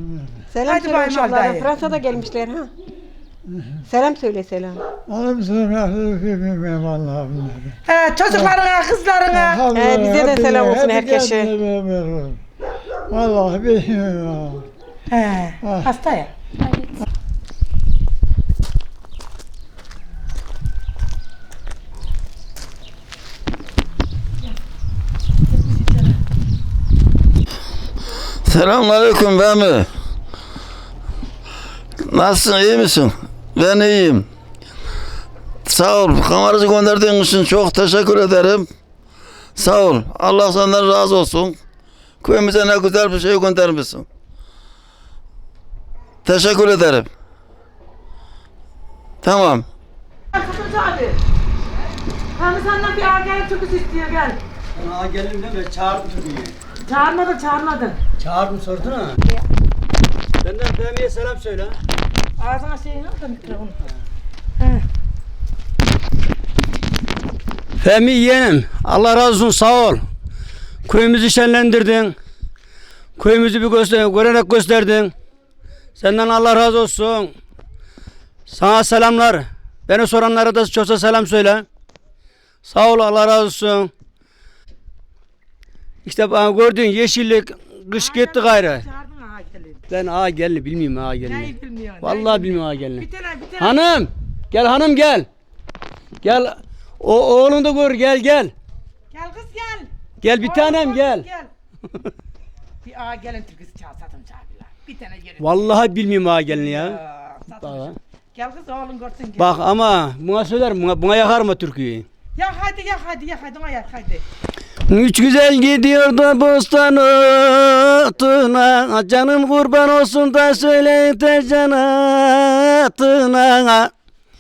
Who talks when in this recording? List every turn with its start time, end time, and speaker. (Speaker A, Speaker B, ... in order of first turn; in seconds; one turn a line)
Speaker A: 0.5-2.7
Speaker B: 0.7-1.7
Speaker A: 3.9-4.8
Speaker C: 5.6-6.6
Speaker B: 7.9-9.6
Speaker A: 9.7-11.6
Speaker C: 10.7-11.8
Speaker C: 13.6-14.2
Speaker B: 15.1-16.3
Speaker D: 28.5-29.9
Speaker D: 32.1-34.3
Speaker D: 35.7-38.7
Speaker D: 39.6-41.6
Speaker D: 42.2-44.1
Speaker D: 46.3-47.1
Speaker D: 49.2-49.7
Speaker B: 50.4-51.1
Speaker B: 52.4-54.4
Speaker E: 54.8-56.5
Speaker B: 56.9-58.0
Speaker E: 58.2-59.2
Speaker E: 60.4-61.8
Speaker B: 62.4-63.7
Speaker E: 67.8-70.0
Speaker E: 70.9-72.2
Speaker E: 73.2-75.1
Speaker E: 76.0-77.3
Speaker E: 78.5-81.7
Speaker E: 82.7-83.9
Speaker E: 86.1-88.8
Speaker B: 88.0-89.8
Speaker E: 89.9-93.1
Speaker B: 91.2-93.7
Speaker E: 93.6-95.3
Speaker E: 96.2-98.5
Speaker B: 99.1-99.9
Speaker E: 100.2-101.3
Speaker B: 100.4-101.5
Speaker B: 102.8-105.4
Speaker E: 105.4-107.0
Speaker B: 106.7-109.5
Speaker E: 107.6-108.0
Speaker E: 109.4-112.1
Speaker B: 112.4-114.2
Speaker E: 114.9-123.9